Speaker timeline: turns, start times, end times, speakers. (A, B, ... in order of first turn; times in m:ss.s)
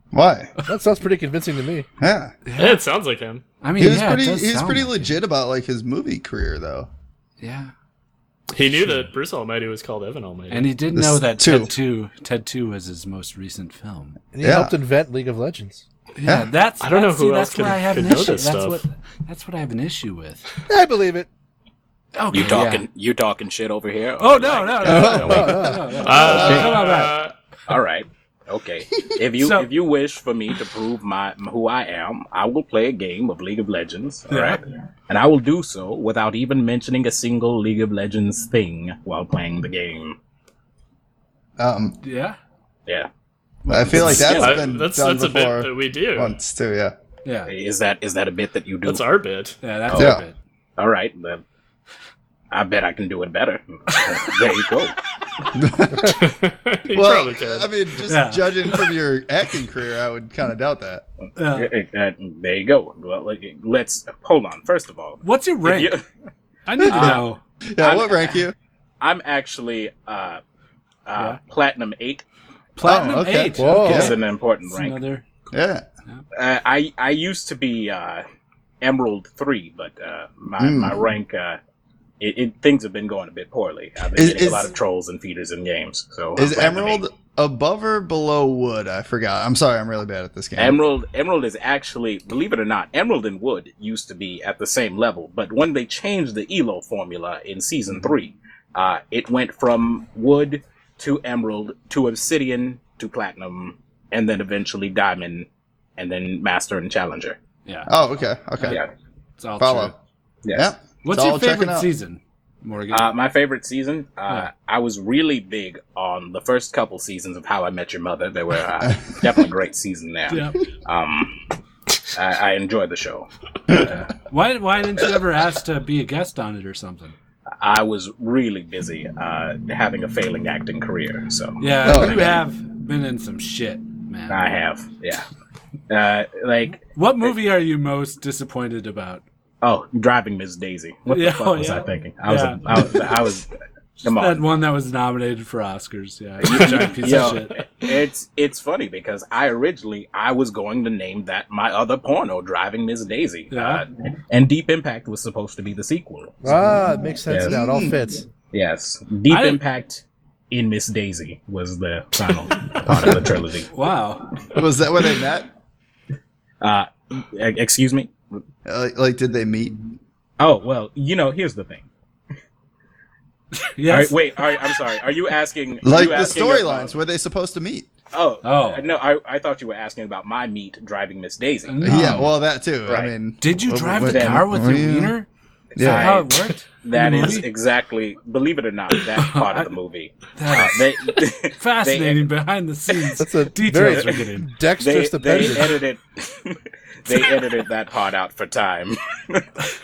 0:00.1-0:00.5 A
0:00.7-0:01.9 B
0:02.0-0:02.4 A
0:02.5-0:02.8 C
0:02.6-0:03.4 D
0:03.6-0:05.1 C
0:03.8-0:06.9 A
0:07.4-0:07.7 C
0:08.5-0:10.7 D
0:08.8-0:09.1 C
0:10.5-0:14.2 C
0:10.9-0:11.7 A
0:14.3-0:15.8 B
0:14.4-0:14.8 A
0:16.2-0:20.5 C
0:16.2-0:16.5 A
0:16.8-0:18.8 D
0:20.7-0:21.3 B
0:22.2-0:22.9 C
0:22.3-0:25.3 E
0:24.2-0:27.2 C
0:24.8-0:26.6 A
0:25.0-0:27.3 D
0:25.3-0:25.9 B
0:26.3-0:26.7 E
0:27.7-0:40.2 E
0:29.4-0:29.7 C
0:34.3-0:34.6 C
0:41.6-0:42.0 A
0:42.0-0:42.4 C
0:43.7-0:46.9 A
0:43.7-0:44.6 C
0:44.0-0:44.3 E
0:44.2-0:46.4 D
0:47.2-0:47.5 C
0:47.5-0:49.0 E
0:48.8-0:49.6 D
0:49.6-0:50.4 C
0:49.9-0:50.2 E
0:49.9-0:50.2 A
0:50.8-0:51.4 E
0:52.5-0:55.0 E
0:55.6-0:56.2 A
0:56.1-0:57.7 D
0:56.9-1:01.0 A
0:58.1-0:58.7 C
1:01.4-1:01.7 C
1:01.5-1:06.0 E
1:05.2-1:05.9 C
1:06.7-1:07.4 C
1:06.8-1:08.5 A
1:06.9-1:07.3 E
1:07.8-1:08.5 E
1:09.0-1:10.4 E
1:11.1-1:12.2 E
1:12.8-1:15.3 C
1:12.8-1:14.2 A
1:13.6-1:14.2 B
1:13.8-1:15.0 E
1:15.5-1:15.9 A
1:16.3-1:18.2 E
1:18.8-1:21.6 E
1:20.6-1:21.0 A
1:22.2-1:27.0 E
1:24.1-1:24.7 A
1:26.4-1:30.8 A
1:30.6-1:47.4 E
1:47.9-1:48.8 A
1:49.4-1:50.0 C
1:49.6-1:50.0 A
1:50.4-1:50.7 E
1:50.5-1:51.9 A
1:51.0-1:53.1 C
1:52.9-2:01.4 E
2:00.3-2:00.6 C
2:02.1-2:03.8 E
2:03.7-2:07.2 C
2:07.6-2:12.3 E
2:11.6-2:14.4 C
2:11.8-2:12.4 A
2:14.3-2:15.3 E
2:15.9-2:17.3 E
2:17.0-2:19.2 C
2:19.6-2:23.5 E
2:21.1-2:23.1 C
2:24.0-2:27.6 C
2:24.0-2:24.4 E
2:26.4-2:36.6 E
2:33.5-2:33.8 C
2:36.4-2:38.2 B
2:37.3-2:37.6 E
2:37.4-2:38.0 A
2:38.5-2:43.7 E
2:39.3-2:39.6 C
2:42.9-2:43.3 A
2:43.7-2:44.3 C
2:44.5-2:45.5 A
2:46.6-2:48.4 E
2:48.7-2:49.8 A
2:50.4-2:51.9 E
2:53.8-2:54.2 C
2:53.9-2:57.0 E
2:55.8-2:57.9 A
2:58.1-3:02.1 E
2:58.4-2:58.8 C
3:01.7-3:02.3 C
3:01.8-3:05.2 A
3:02.9-3:03.1 E
3:03.4-3:05.3 C
3:04.1-3:04.4 E
3:05.8-3:06.2 A
3:05.8-3:06.3 E
3:05.8-3:07.5 C
3:06.8-3:12.2 E
3:09.2-3:09.7 C
3:10.4-3:14.5 C
3:13.2-3:15.8 B
3:14.8-3:19.5 E